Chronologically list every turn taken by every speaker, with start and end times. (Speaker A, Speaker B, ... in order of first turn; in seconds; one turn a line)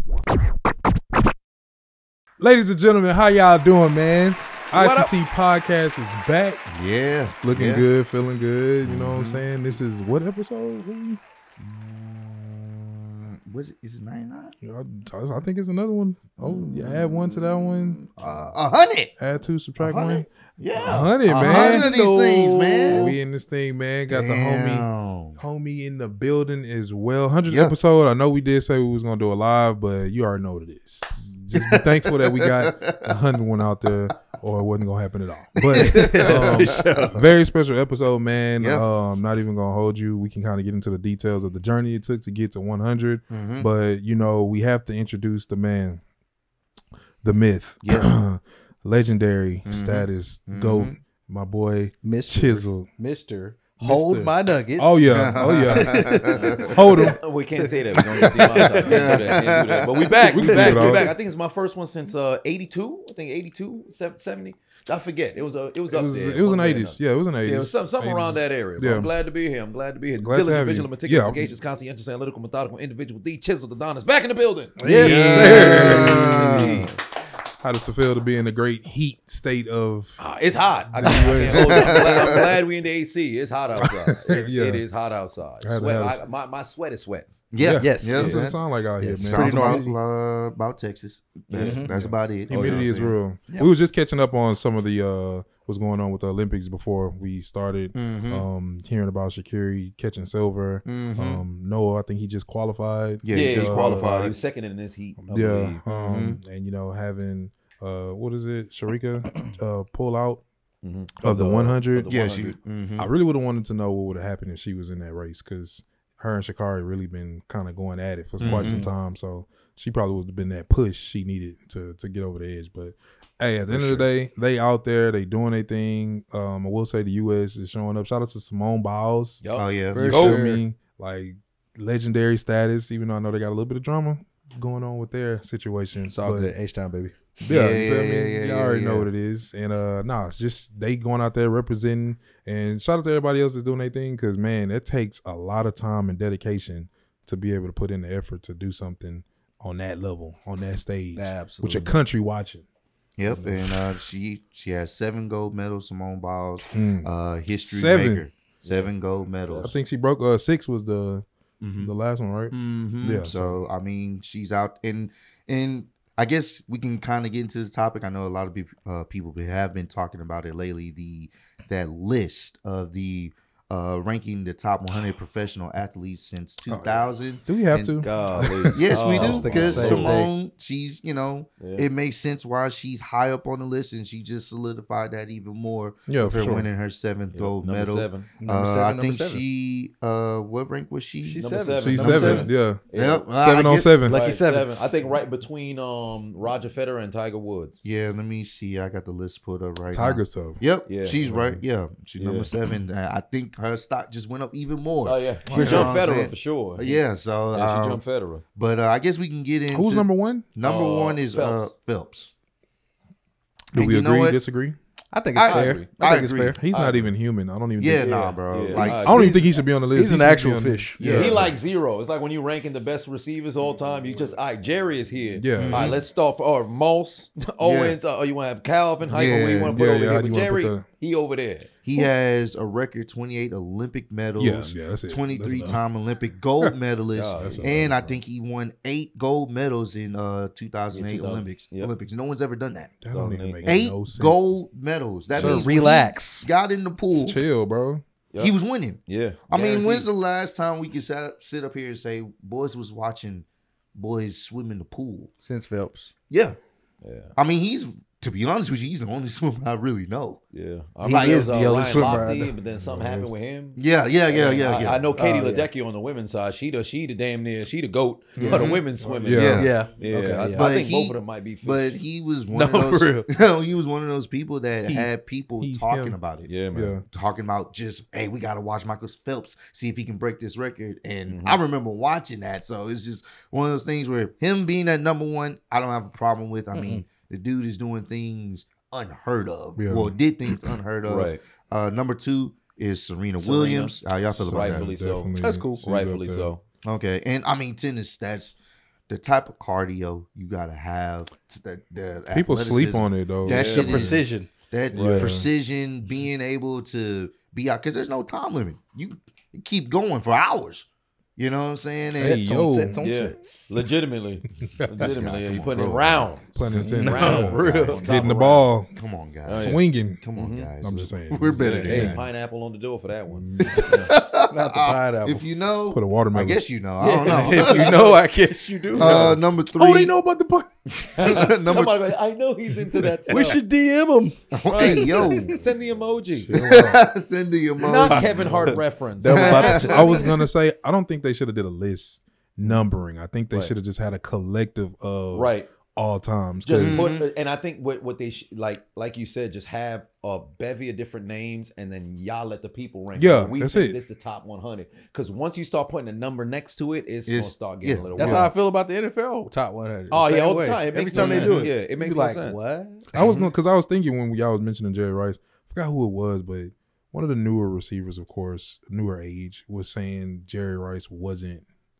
Speaker A: 2.4-6.6
Speaker B: 4.7-5.1
Speaker C: 6.7-7.8
Speaker A: 7.4-11.2
Speaker C: 8.8-9.4
Speaker C: 11.6-14.5
Speaker A: 14.6-18.0
Speaker C: 16.4-19.1
Speaker A: 19.2-21.9
Speaker C: 19.8-23.2
Speaker D: 21.3-23.2
Speaker A: 22.9-24.9
Speaker C: 24.1-25.4
Speaker A: 25.4-46.0
Speaker C: 27.5-27.7
Speaker C: 31.5-33.2
Speaker C: 35.7-37.1
Speaker D: 35.7-37.2
Speaker C: 38.6-38.8
Speaker C: 43.3-43.7
Speaker A: 47.2-52.9
Speaker C: 47.8-48.2
Speaker C: 49.7-51.0
Speaker D: 52.0-59.5
Speaker A: 53.8-57.2
Speaker C: 55.0-57.0
Speaker B: 56.3-74.8
Speaker A: 58.4-58.6
Speaker C: 58.8-60.1
Speaker D: 60.1-61.1
Speaker A: 60.2-61.1
Speaker A: 65.9-69.1
Speaker A: 70.2-71.5
Speaker A: 74.8-76.9
Speaker D: 74.8-76.1
Speaker C: 74.9-76.9
Speaker B: 75.4-76.8
Speaker A: 77.6-80.2
Speaker B: 80.2-87.3
Speaker A: 80.9-82.3
Speaker C: 81.5-82.5
Speaker A: 83.8-84.8
Speaker A: 85.6-86.2
Speaker C: 87.5-93.7
Speaker A: 87.6-90.0
Speaker D: 87.8-88.4
Speaker B: 88.1-88.4
Speaker D: 89.0-89.9
Speaker B: 91.5-91.8
Speaker D: 91.6-91.9
Speaker A: 91.9-104.1
Speaker B: 92.5-93.1
Speaker C: 97.9-98.4
Speaker C: 100.8-101.4
Speaker C: 103.2-104.3
Speaker B: 103.3-105.8
Speaker A: 105.2-110.4
Speaker C: 105.9-106.4
Speaker B: 110.8-112.6
Speaker A: 111.2-112.3
Speaker C: 112.1-113.1
Speaker A: 113.0-129.4
Speaker C: 118.4-118.9
Speaker D: 118.5-118.9
Speaker C: 123.7-124.1
Speaker B: 129.4-130.4
Speaker C: 129.5-130.1
Speaker D: 129.9-130.6
Speaker A: 130.0-136.5
Speaker D: 136.0-137.1
Speaker A: 137.4-152.6
Speaker C: 137.5-139.1
Speaker D: 151.2-152.0
Speaker C: 153.2-159.7
Speaker A: 153.3-153.8
Speaker A: 156.7-157.1
Speaker A: 157.6-158.2
Speaker B: 158.6-158.9
Speaker B: 159.4-159.7
Speaker A: 159.6-161.2
Speaker C: 161.6-161.9
Speaker A: 161.8-163.6
Speaker C: 162.5-178.0
Speaker A: 176.7-180.1
Speaker B: 178.0-180.1
Speaker C: 178.7-191.4
Speaker D: 178.9-180.3
Speaker B: 181.6-181.8
Speaker A: 186.1-186.7
Speaker B: 187.3-188.3
Speaker D: 188.4-189.4
Speaker D: 191.2-192.5
Speaker B: 191.4-193.3
Speaker A: 191.8-192.8
Speaker C: 192.0-192.3
Speaker C: 192.9-194.0
Speaker A: 193.3-194.2
Speaker D: 194.1-194.9
Speaker B: 194.1-197.8
Speaker C: 197.8-208.0
Speaker A: 199.9-200.6
Speaker B: 200.8-201.3
Speaker A: 201.2-201.6
Speaker B: 202.2-202.5
Speaker B: 205.0-207.0
Speaker A: 205.5-205.9
Speaker D: 205.5-206.0
Speaker B: 207.5-208.4
Speaker C: 208.6-212.3
Speaker A: 209.7-210.5
Speaker B: 210.6-211.7
Speaker A: 213.7-214.8
Speaker C: 213.7-214.4
Speaker D: 215.1-216.6
Speaker C: 215.3-216.6
Speaker B: 215.4-215.9
Speaker A: 216.6-221.5
Speaker B: 216.7-217.1
Speaker C: 217.8-219.4
Speaker B: 218.0-219.3
Speaker D: 218.8-221.3
Speaker C: 221.0-221.5
Speaker B: 221.1-231.7
Speaker A: 225.3-226.0
Speaker C: 225.5-226.0
Speaker C: 227.6-228.0
Speaker C: 229.1-229.8
Speaker A: 229.7-230.8
Speaker C: 231.8-242.9
Speaker A: 234.4-235.8
Speaker B: 237.1-237.9
Speaker A: 237.3-238.2
Speaker D: 240.9-241.5
Speaker A: 243.0-244.5
Speaker B: 243.1-243.8
Speaker C: 243.6-247.4
Speaker D: 245.3-246.5
Speaker A: 245.4-245.9
Speaker A: 247.2-248.0
Speaker C: 248.4-255.3
Speaker B: 249.1-250.1
Speaker D: 255.4-256.1
Speaker C: 256.3-256.6
Speaker B: 257.0-257.3
Speaker C: 257.4-260.4
Speaker B: 260.5-272.0
Speaker D: 261.0-262.5
Speaker C: 261.0-261.7
Speaker A: 262.2-263.3
Speaker C: 263.8-265.0
Speaker D: 265.1-265.7
Speaker A: 268.4-269.7
Speaker C: 268.4-269.7
Speaker D: 269.5-270.7
Speaker C: 270.5-294.9
Speaker D: 272.5-273.3
Speaker A: 275.6-276.1
Speaker B: 276.5-277.0
Speaker A: 276.7-277.0
Speaker B: 281.3-281.6
Speaker D: 286.7-287.0
Speaker A: 289.8-290.1
Speaker B: 291.0-291.4
Speaker B: 293.4-296.6
Speaker A: 294.3-296.5
Speaker D: 295.4-295.8
Speaker C: 296.8-298.5
Speaker C: 299.1-310.8
Speaker A: 302.3-304.2
Speaker B: 303.4-304.1
Speaker D: 303.7-304.5
Speaker A: 304.9-305.5
Speaker C: 311.4-312.4
Speaker A: 312.1-313.1
Speaker D: 312.2-313.7
Speaker B: 313.0-318.7
Speaker C: 315.0-318.3
Speaker A: 316.5-318.9
Speaker D: 316.9-317.4
Speaker C: 318.9-322.2
Speaker B: 319.4-319.8
Speaker A: 319.5-320.2
Speaker B: 320.3-320.7
Speaker A: 320.8-322.2
Speaker B: 321.5-324.1
Speaker A: 323.3-324.1
Speaker C: 323.6-328.0
Speaker D: 323.9-325.4
Speaker A: 325.9-326.6
Speaker B: 327.0-328.2
Speaker D: 327.2-329.4
Speaker C: 328.9-330.1
Speaker A: 329.0-331.5
Speaker C: 331.0-331.9
Speaker B: 331.1-333.6
Speaker D: 333.3-335.6
Speaker C: 334.5-335.6
Speaker B: 334.7-336.8
Speaker A: 336.5-337.0
Speaker C: 336.5-338.7
Speaker B: 337.8-340.3
Speaker D: 338.0-340.3
Speaker C: 339.3-340.3
Speaker A: 339.3-347.1
Speaker B: 345.3-345.7
Speaker B: 346.6-358.5
Speaker C: 346.8-347.3
Speaker A: 353.1-354.0
Speaker C: 357.2-358.1
Speaker D: 358.1-363.1
Speaker A: 358.2-358.5
Speaker B: 360.1-362.6
Speaker A: 361.1-361.6
Speaker C: 361.1-361.6
Speaker A: 363.1-371.6
Speaker C: 363.1-363.5